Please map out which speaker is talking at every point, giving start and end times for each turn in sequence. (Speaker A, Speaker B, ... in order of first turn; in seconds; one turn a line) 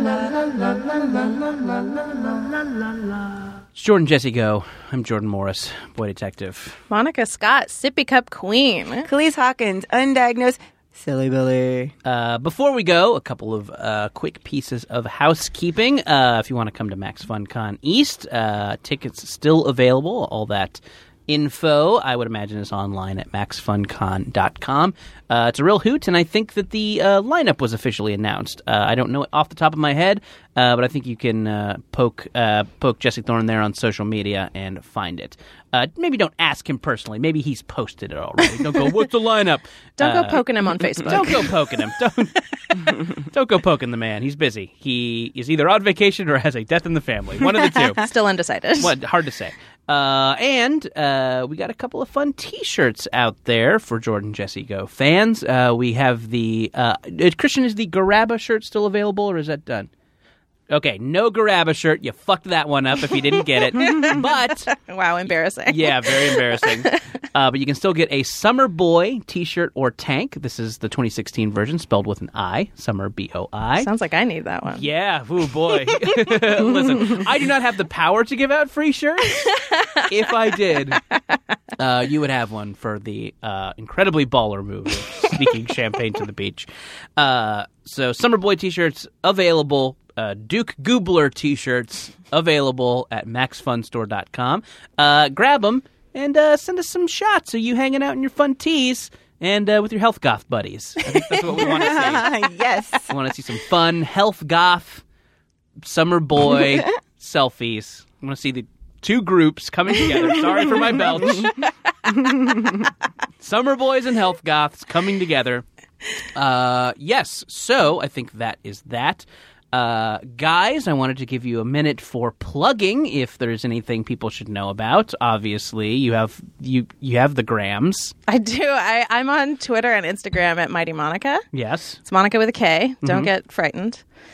Speaker A: 3.8-6.8
Speaker B: 6.9-9.1
Speaker C: 9.1-11.9
Speaker A: 12.1-40.4
Speaker B: 40.0-41.6
Speaker A: 41.0-48.0
Speaker B: 47.8-48.9
Speaker A: 48.8-59.9
Speaker A: 60.7-64.8
Speaker B: 63.1-67.0
Speaker A: 65.7-73.9
Speaker B: 73.8-74.8
Speaker A: 74.7-81.0
Speaker B: 75.9-77.2
Speaker B: 79.4-80.1
Speaker A: 81.8-102.3
Speaker C: 101.5-103.1
Speaker A: 103.1-105.0
Speaker A: 105.8-111.5
Speaker C: 106.6-106.9
Speaker B: 111.2-112.3
Speaker C: 112.1-112.9
Speaker A: 113.4-115.7
Speaker A: 116.3-128.1
Speaker B: 128.3-131.4
Speaker A: 131.5-132.0
Speaker B: 132.1-134.0
Speaker A: 133.0-133.3